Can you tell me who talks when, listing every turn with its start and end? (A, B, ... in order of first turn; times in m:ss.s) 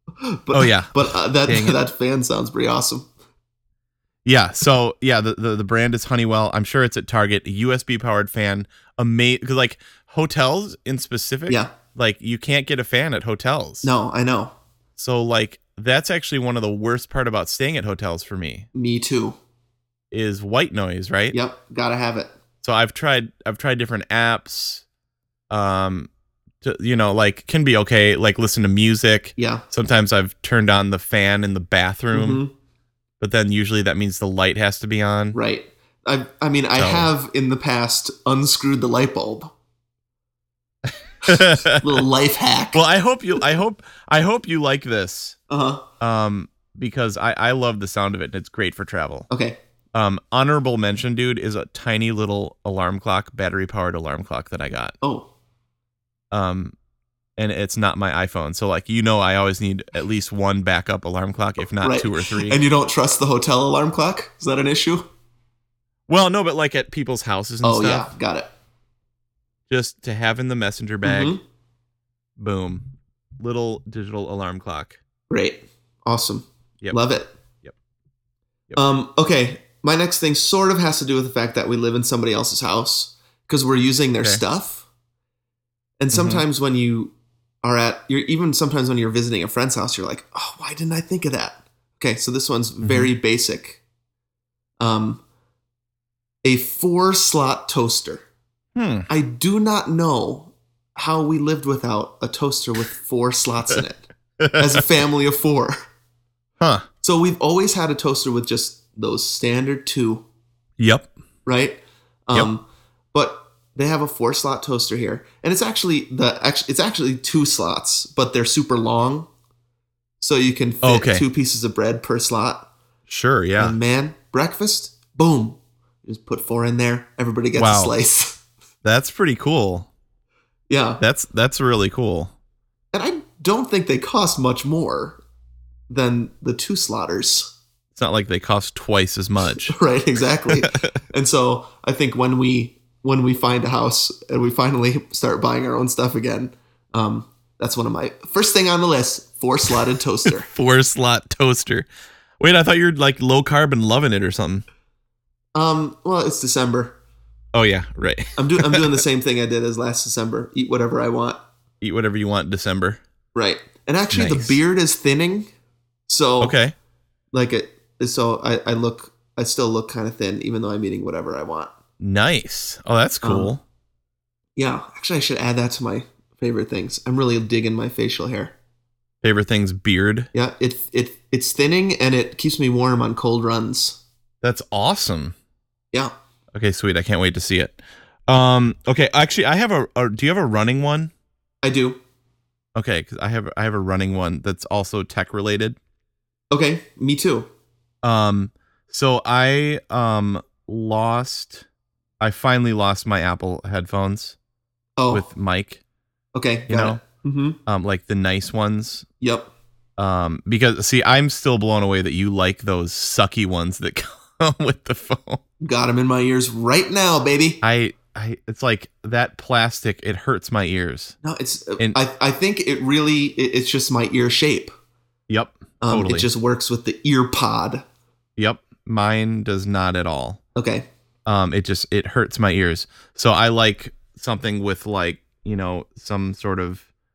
0:00.2-0:03.1 A
0:00.5-0:01.8 B
0:04.2-0:13.9 B
0:13.8-0:14.5 A
0:15.0-0:18.7 B
0:18.7-0:19.4 A
0:20.1-0:21.4 B
0:21.3-0:22.3 A
0:22.6-0:24.8 B
0:25.5-0:26.1 B
0:26.6-0:32.4 B
0:29.4-0:29.6 A
0:32.1-0:32.5 A
0:33.2-0:35.4 B
0:35.3-0:39.5 A
0:36.8-0:37.1 B
0:41.2-0:42.0 B
0:41.2-0:42.8 A
0:42.7-0:45.4 B
0:45.5-0:45.8 A
0:46.0-0:49.3 B
0:49.3-0:49.6 A
0:49.9-0:54.9 B
0:55.0-0:55.3 A
0:56.3-0:56.7 B
0:57.4-1:02.6 B
1:01.8-1:05.1 A
1:06.1-1:08.1 B
1:07.6-1:08.5 A
1:09.7-1:11.4 B
1:11.0-1:11.4 A
1:12.4-1:15.0 B
1:15.3-1:17.3 A
1:18.7-1:24.8 A
1:26.0-1:33.8 A
1:26.1-1:26.4 B
1:32.8-1:33.1 B
1:34.8-1:35.2 A
1:36.4-1:38.2 A
1:38.7-1:39.1 B
1:39.1-1:45.8 A
1:44.4-1:44.8 B
1:46.6-1:46.8 B
1:47.0-1:50.2 A
1:50.8-1:51.1 B
1:51.4-1:59.3 A
2:00.2-2:02.7 A
2:00.8-2:01.2 B
2:03.1-2:03.8 B
2:03.6-2:08.4 A
2:07.5-2:07.9 B
2:08.8-2:09.9 B
2:10.7-2:11.0 A
2:11.0-2:12.3 B
2:12.9-2:15.2 A
2:15.9-2:17.5 A
2:18.0-2:19.7 B
2:19.7-2:30.5 A
2:20.5-2:20.9 B
2:30.3-2:31.9 B
2:32.4-2:34.6 B
2:35.5-2:37.0 A
2:37.5-2:39.0 B
2:38.4-2:41.4 A
2:41.8-2:43.0 B
2:43.3-2:45.5 A
2:44.1-2:44.6 B
2:46.1-2:46.6 A
2:46.4-2:46.7 B
2:47.3-2:51.7 A
2:52.0-2:53.6 B
2:53.2-2:53.5 A
2:54.6-2:58.5 A
2:59.2-3:00.3 B
3:00.3-3:04.0 A
3:04.4-3:05.3 B
3:06.5-3:11.1 B
3:11.6-3:12.0 A
3:12.7-3:15.8 B
3:16.5-3:17.5 A
3:18.0-3:21.6 B
3:22.2-3:24.4 B
3:25.0-3:25.2 A
3:25.1-3:25.8 B
3:26.3-3:27.6 A
3:26.7-3:27.0 B
3:27.6-3:29.0 B
3:29.2-3:29.5 A
3:30.0-3:35.4 B
3:35.6-3:37.6 A
3:37.6-3:41.2 B
3:41.2-3:44.7 A
3:45.3-3:46.3 B
3:45.8-3:47.8 A
3:48.4-3:50.4 B
3:50.6-3:50.9 A
3:51.2-3:56.8 B